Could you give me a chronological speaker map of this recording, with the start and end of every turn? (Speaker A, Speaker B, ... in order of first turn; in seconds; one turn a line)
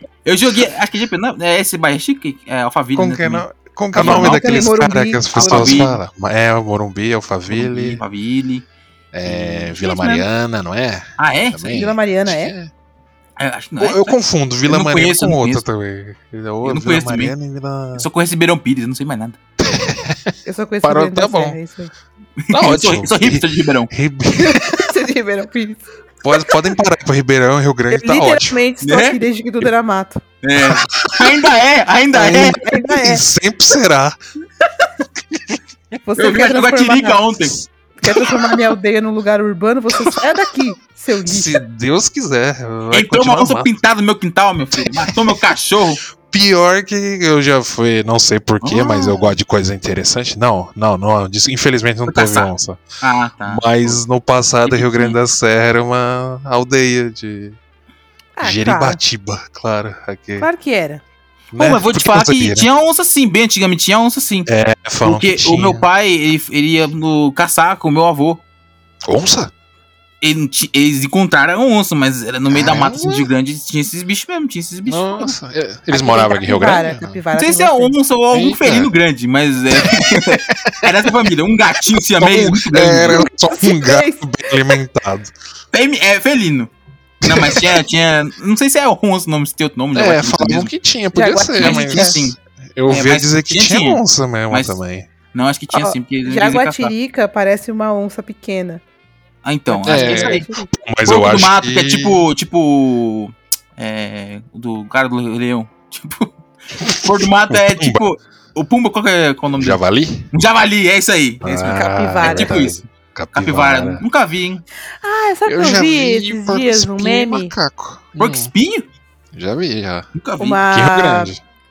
Speaker A: 0.2-3.5
Speaker B: 3.0-8.0
Speaker C: 4.0-5.9
Speaker A: 4.0-4.5
Speaker A: 5.3-6.0
Speaker A: 7.5-8.6
Speaker B: 9.1-12.7
Speaker A: 9.2-10.2
Speaker A: 11.2-11.8
Speaker C: 11.7-12.5
Speaker A: 13.4-15.6
Speaker B: 13.8-18.1
Speaker A: 16.6-17.3
Speaker A: 17.9-19.4
Speaker B: 19.6-21.6
Speaker C: 20.4-21.9
Speaker A: 22.4-23.9
Speaker B: 22.5-24.9
Speaker C: 24.4-25.9
Speaker B: 26.2-28.6
Speaker C: 27.9-30.2
Speaker A: 28.8-29.2
Speaker A: 30.4-32.6
Speaker B: 30.6-31.4
Speaker B: 32.1-34.2
Speaker C: 32.2-33.2
Speaker C: 36.0-37.2
Speaker A: 36.2-37.6
Speaker C: 38.0-41.6
Speaker B: 41.2-43.7
Speaker A: 42.9-46.0
Speaker B: 44.9-45.4
Speaker B: 46.3-52.8
Speaker A: 48.6-49.2
Speaker A: 52.1-52.5
Speaker A: 53.0-54.0
Speaker B: 53.5-57.6
Speaker A: 54.6-55.2
Speaker C: 58.4-59.0
Speaker B: 58.4-60.5
Speaker C: 60.4-61.0
Speaker B: 61.5-62.7
Speaker A: 61.5-64.5
Speaker B: 64.5-65.8
Speaker A: 65.0-68.4
Speaker B: 69.0-69.5
Speaker A: 70.2-75.3
Speaker B: 72.5-73.3
Speaker B: 74.9-77.2
Speaker C: 75.9-77.9
Speaker A: 77.3-83.2
Speaker B: 78.3-78.9
Speaker B: 79.8-81.1
Speaker B: 82.2-85.3
Speaker C: 83.3-84.2
Speaker A: 85.7-86.7
Speaker B: 87.2-87.8
Speaker A: 87.2-90.7
Speaker B: 89.9-95.1
Speaker C: 91.1-92.2
Speaker A: 91.6-92.3
Speaker A: 92.9-94.8
Speaker A: 95.3-96.9
Speaker C: 95.7-98.8
Speaker A: 99.4-100.5
Speaker C: 99.7-100.7
Speaker B: 99.8-102.2
Speaker A: 101.0-106.3
Speaker A: 106.8-109.8
Speaker B: 107.5-108.0
Speaker B: 109.5-110.3
Speaker A: 110.3-111.4
Speaker B: 111.4-114.0
Speaker C: 111.5-112.6
Speaker A: 112.2-114.6
Speaker C: 115.0-117.5
Speaker B: 115.5-118.5
Speaker A: 118.2-118.8
Speaker B: 119.3-120.1
Speaker A: 120.1-120.6
Speaker C: 120.4-121.3
Speaker B: 120.7-121.4